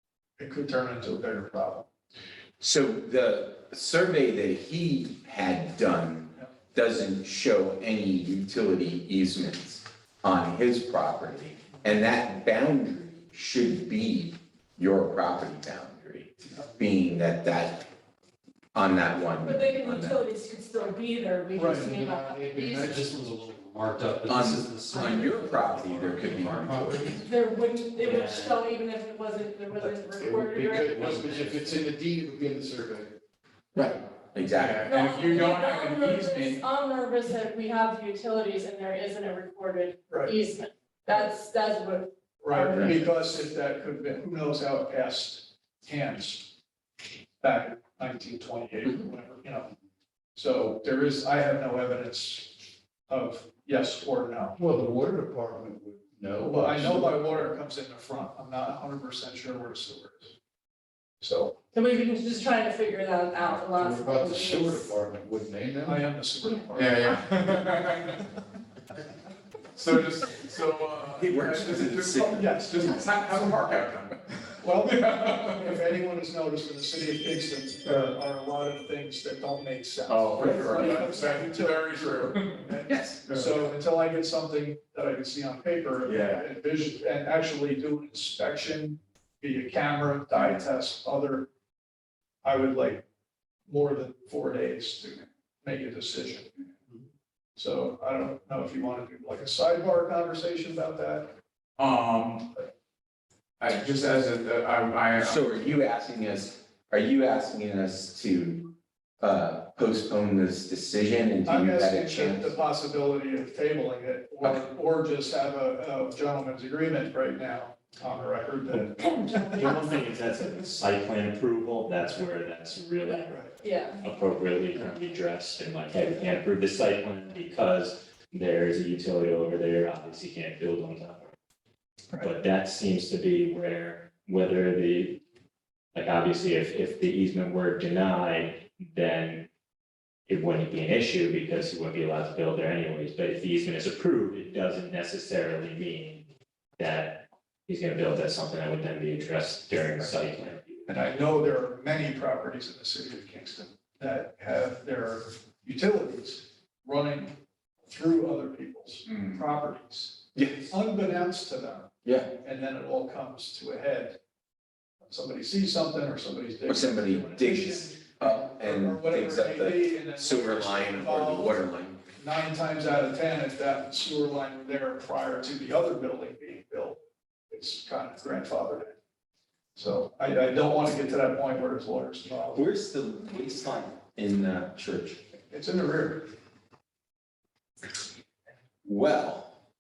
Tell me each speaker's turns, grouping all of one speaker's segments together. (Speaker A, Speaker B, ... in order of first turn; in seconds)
Speaker A: 0.4-1.9, 21.6-21.9, 40.1-40.3, 42.4-46.5, 47.4-49.7, 50.4-54.6, 56.4-60.3, 61.2-61.6, 65.8-67.2, 72.4-73.9, 74.6-91.5, 92.4-93.0, 93.7-96.5, 97.6-101.3, 111.5-119.0, 150.9-157.3, 157.9-164.2, 165.1-177.0, 177.5-179.0, 179.8-182.7, 185.5-186.3
Speaker B: 2.6-17.9, 18.7-20.2, 24.3-27.3, 33.8-35.0, 71.2-72.7, 80.4-80.7, 82.9-83.2, 105.2-112.6, 114.4-114.7, 160.3-160.7, 162.0-162.3, 166.7-172.0, 182.6-185.2, 188.8-189.6
Speaker C: 19.4-22.9, 27.1-31.5, 34.8-43.2, 61.7-64.9, 72.8-73.1, 119.3-119.7, 123.1-124.0
Speaker D: 21.7-23.2, 26.6-27.2, 29.8-33.2, 54.6-57.5, 63.6-66.0
Speaker E: 22.5-26.7, 28.0-28.6, 30.9-31.8
Speaker F: 34.5-36.7, 66.7-68.3, 69.8-74.2, 74.8-75.8, 77.9-78.1, 80.1-82.7, 83.2-83.6, 86.0-86.4, 101.8-102.5, 103.6-105.6, 159.1-159.4
Speaker G: 118.7-131.3, 132.2-135.2, 135.9-139.5, 140.3-146.3, 146.8-150.9